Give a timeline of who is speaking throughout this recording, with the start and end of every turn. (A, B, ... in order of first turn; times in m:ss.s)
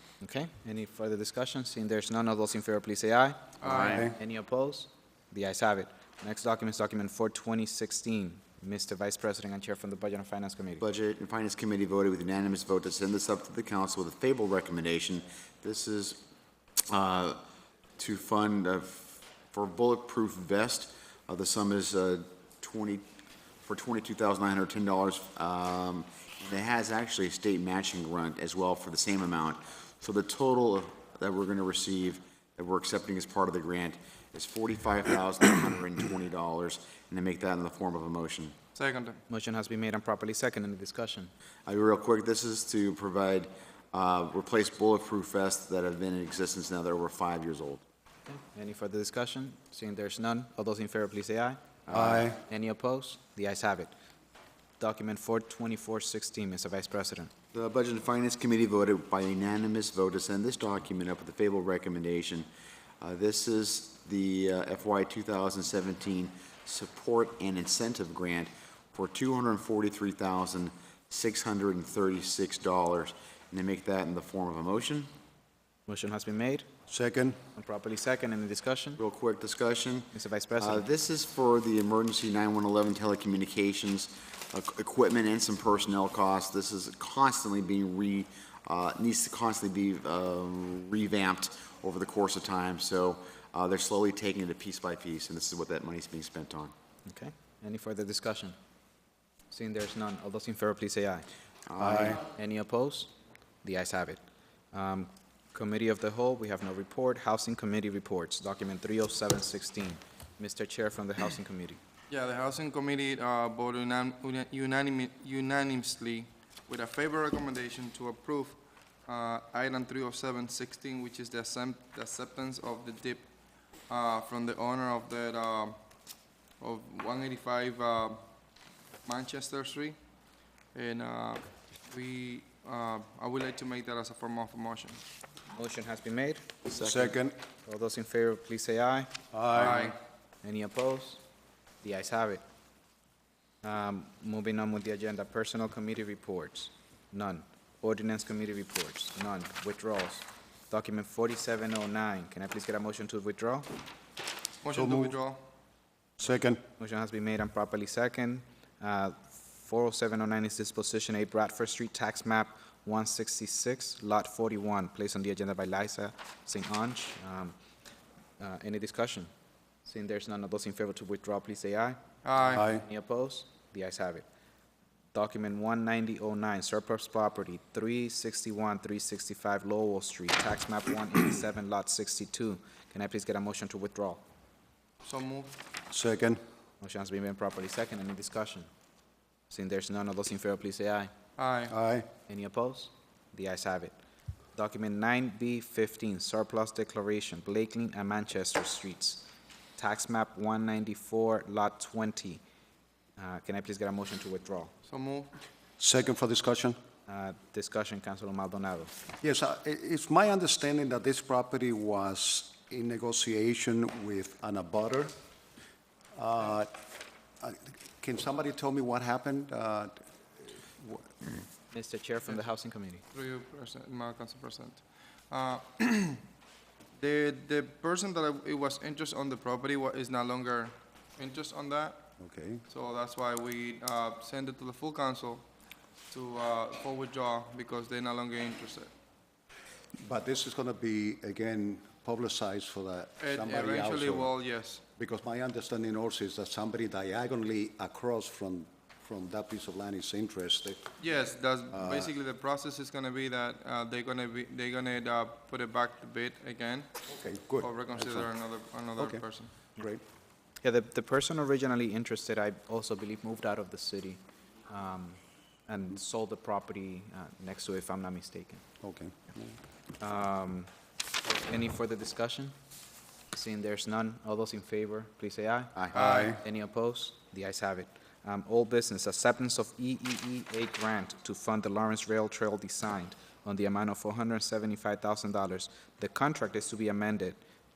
0:00.2-0:10.8 A
0:03.6-0:04.1 B
0:03.7-0:04.2 C
0:10.8-0:16.2 D
0:16.9-0:17.4 D
0:18.0-0:23.0 D
0:23.6-0:38.6 D
0:38.8-0:39.2 B
0:39.3-0:41.3 A
0:41.7-0:47.8 D
0:48.3-0:53.9 A
0:51.9-0:52.4 C
0:54.8-0:57.3 A
0:57.5-1:02.5 D
1:03.0-1:15.1 D
1:15.9-1:16.7 A
1:16.9-1:17.4 C
1:17.5-1:19.0 A
1:19.0-1:36.7 D
1:20.1-1:20.9 A
1:37.0-1:38.6 A
1:39.5-1:41.2 A
1:41.7-1:42.2 D
1:41.8-1:42.2 C
1:42.2-1:43.1 A
1:43.6-1:44.2 A
1:44.7-1:51.8 A
1:52.1-2:05.8 B
2:06.6-2:08.2 B
2:09.0-2:10.0 B
2:10.7-2:15.0 B
2:15.5-2:19.3 A
2:16.8-2:17.4 C
2:19.3-2:19.9 C
2:19.5-2:20.0 B
2:20.4-2:21.2 A
2:21.8-2:22.4 A
2:23.6-2:33.7 A
2:34.6-2:35.4 B
2:34.7-2:35.2 C
2:36.2-2:36.6 C
2:36.8-2:47.5 A
2:48.4-2:49.3 A
2:49.8-2:54.2 A
2:52.2-2:52.7 B
2:52.5-2:52.8 C
2:55.1-3:04.2 A
3:05.0-3:05.5 B
3:05.9-3:06.4 C
3:06.8-3:08.7 A
3:09.5-3:11.1 A
3:11.4-3:11.8 B
3:11.7-3:12.1 C
3:12.2-3:13.9 A
3:14.5-3:19.2 A
3:19.8-3:22.4 A
3:23.2-3:24.7 A
3:24.9-3:25.3 B
3:25.8-3:26.8 C
3:27.1-3:28.9 A
3:29.2-3:35.1 C
3:36.1-3:36.7 C
3:37.4-3:40.0 C
3:40.8-3:41.3 C
3:41.7-3:43.0 A
3:43.1-3:46.2 B
3:47.0-3:52.1 B
3:52.2-3:52.6 C
3:52.7-3:55.5 B
3:56.1-3:58.9 B
4:00.0-4:04.3 C
4:03.2-4:04.8 B
4:05.0-4:10.8 C
4:11.0-4:17.0 B
4:11.7-4:12.1 C
4:17.1-4:18.3 C
4:17.6-4:19.5 B
4:19.0-4:19.2 C
4:19.8-4:20.0 C
4:20.6-4:28.6 A
4:28.8-4:29.6 C
4:30.0-4:30.7 A
4:31.4-4:32.5 A
4:33.3-4:47.4 A
4:35.9-4:36.4 B
4:36.0-4:36.4 C